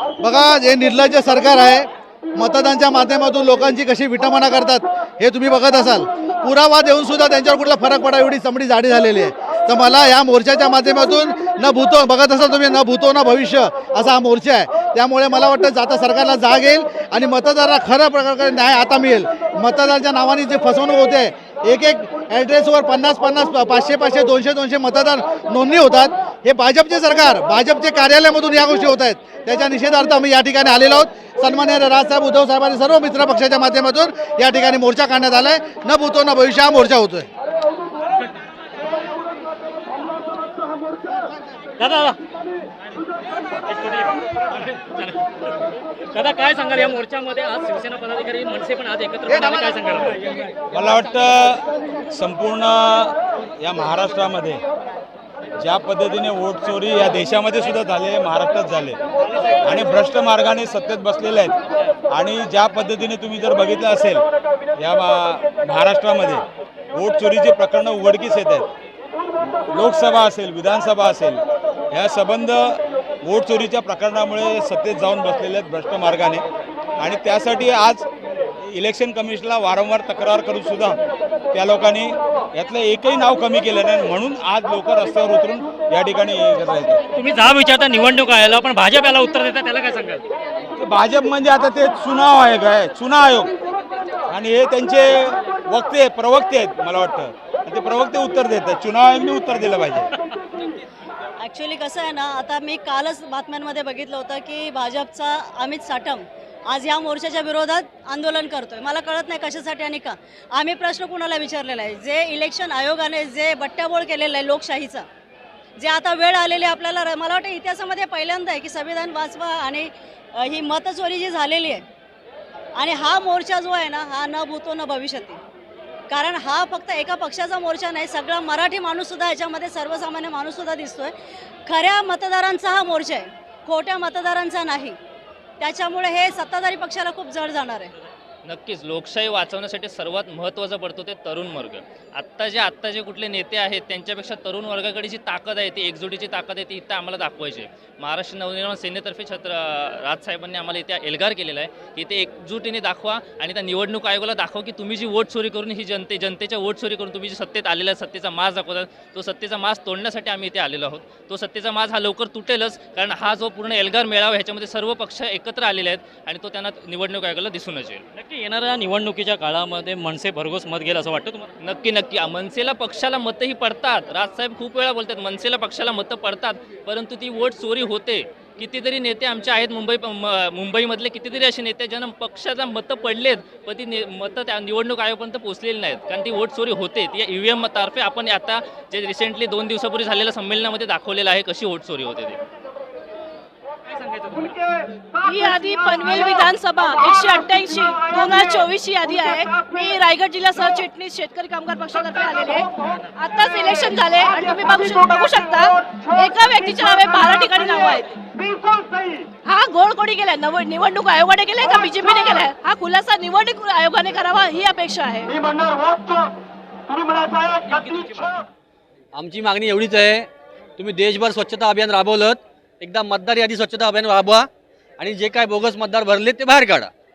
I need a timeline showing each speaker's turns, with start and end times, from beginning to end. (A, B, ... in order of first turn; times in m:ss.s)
0:00.2-0:01.9 A
0:02.4-0:37.3 A
0:41.8-0:42.2 B
0:43.6-0:45.5 B
0:46.1-0:50.4 B
0:50.7-0:54.6 C
0:55.6-0:59.0 C
0:59.6-1:01.6 C
1:02.1-1:04.2 C
1:04.8-1:06.4 C
1:07.0-1:08.7 C
1:09.7-1:11.4 C
1:11.9-1:16.4 C
1:17.0-1:18.1 C
1:18.7-1:21.0 C
1:21.5-1:27.0 C
1:27.1-1:30.2 B
1:30.8-1:33.5 C
1:34.3-1:40.1 C
1:41.4-1:55.0 D
1:55.8-2:01.8 D
2:02.8-2:05.4 D
2:06.1-2:11.1 D
2:11.7-2:15.0 D
2:15.6-2:17.9 D
2:18.4-2:48.0 E
2:48.1-2:51.5 B
2:51.6-3:12.4 E
3:14.0-3:14.5 B
3:15.2-3:28.2 F
3:29.4-3:35.3 F
3:37.7-3:38.4 B
3:39.1-3:44.5 G
3:45.0-3:46.9 G